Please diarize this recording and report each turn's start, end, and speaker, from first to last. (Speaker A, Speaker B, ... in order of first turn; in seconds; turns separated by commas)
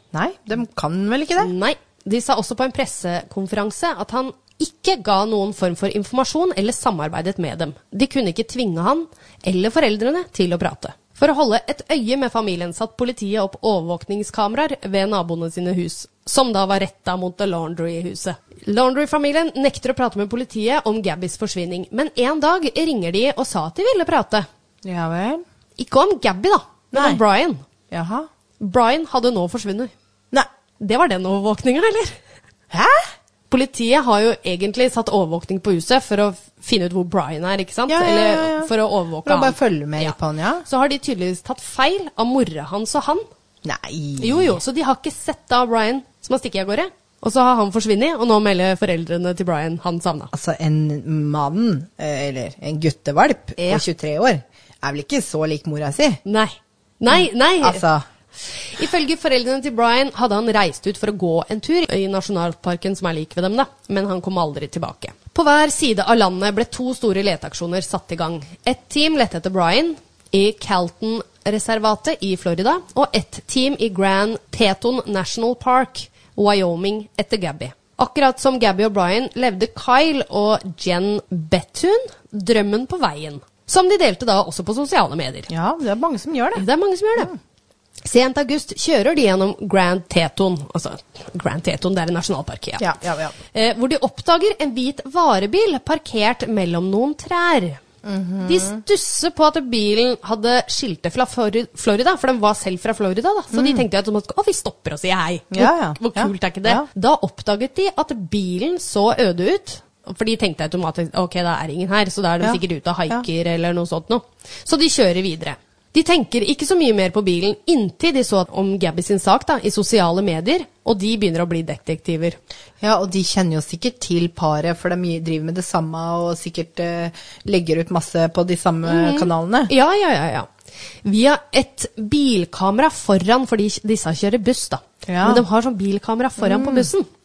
Speaker A: 0.1-1.5, Speaker B: 1.4-24.5, Speaker A: 24.8-25.4, Speaker B: 25.8-27.6, Speaker A: 26.9-27.2, Speaker A: 27.9-28.3, Speaker B: 28.6-29.9, Speaker B: 30.8-32.2, Speaker A: 32.7-33.1, Speaker B: 33.5-43.3, Speaker A: 37.9-38.7, Speaker A: 39.2-40.6, Speaker A: 43.6-44.6, Speaker B: 44.2-50.3, Speaker A: 50.3-56.2, Speaker B: 56.2-57.8, Speaker A: 57.1-58.0, Speaker B: 58.5-85.5, Speaker A: 85.5-86.6, Speaker B: 86.5-87.3, Speaker B: 88.0-97.8, Speaker A: 92.8-93.3, Speaker A: 98.0-98.8, Speaker B: 98.4-122.4, Speaker A: 103.5-103.8, Speaker A: 105.5-106.8, Speaker A: 112.4-113.2, Speaker A: 122.8-129.7, Speaker B: 128.8-130.5, Speaker B: 131.0-137.1, Speaker A: 135.1-135.4, Speaker A: 136.4-136.9